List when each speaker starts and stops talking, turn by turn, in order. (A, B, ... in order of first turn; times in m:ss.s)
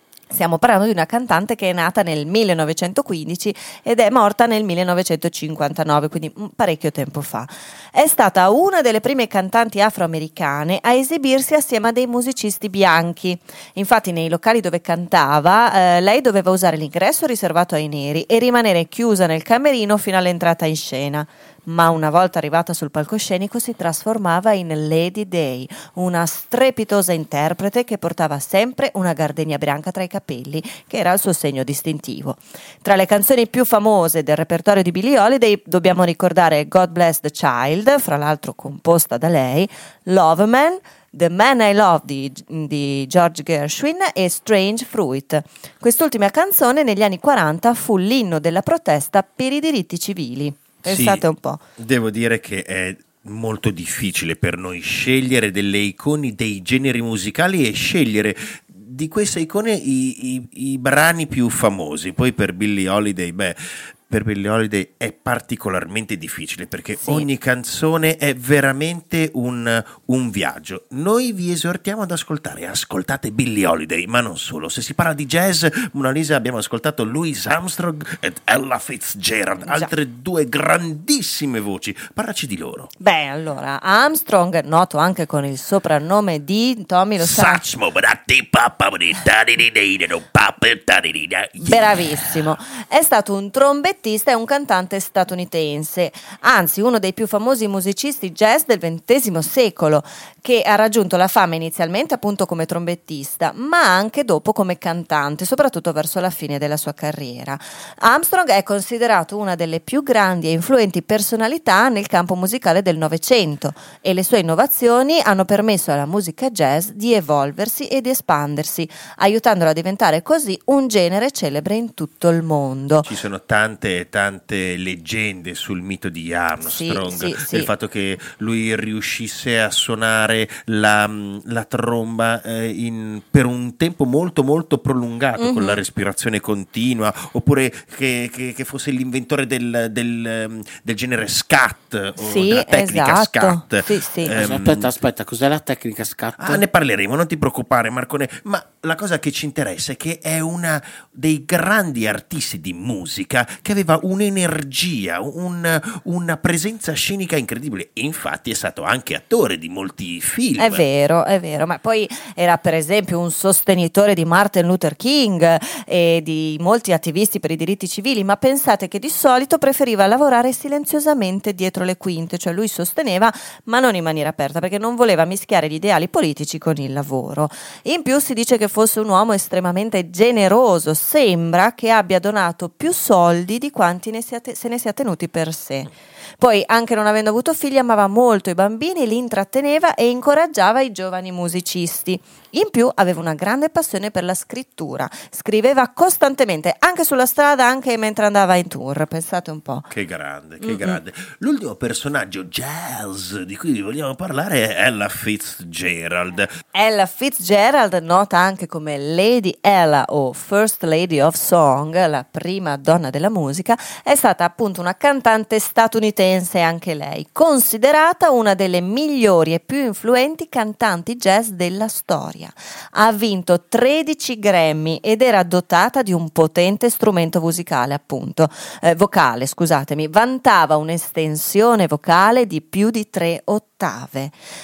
0:00.3-0:51.6 A
0:50.8-0:51.2 B
0:51.8-1:22.9 B
1:19.6-1:19.9 A
1:23.0-1:27.6 A
1:27.2-1:32.5 B
1:31.6-2:03.1 A
2:03.0-2:24.9 B
2:06.6-2:07.7 A
2:15.4-2:15.8 A
2:22.2-2:24.3 A
2:24.3-2:26.6 C
2:26.4-2:40.8 B
2:40.6-3:19.9 A
3:19.9-3:26.5 B
3:20.6-3:21.0 A
3:26.7-3:54.3 A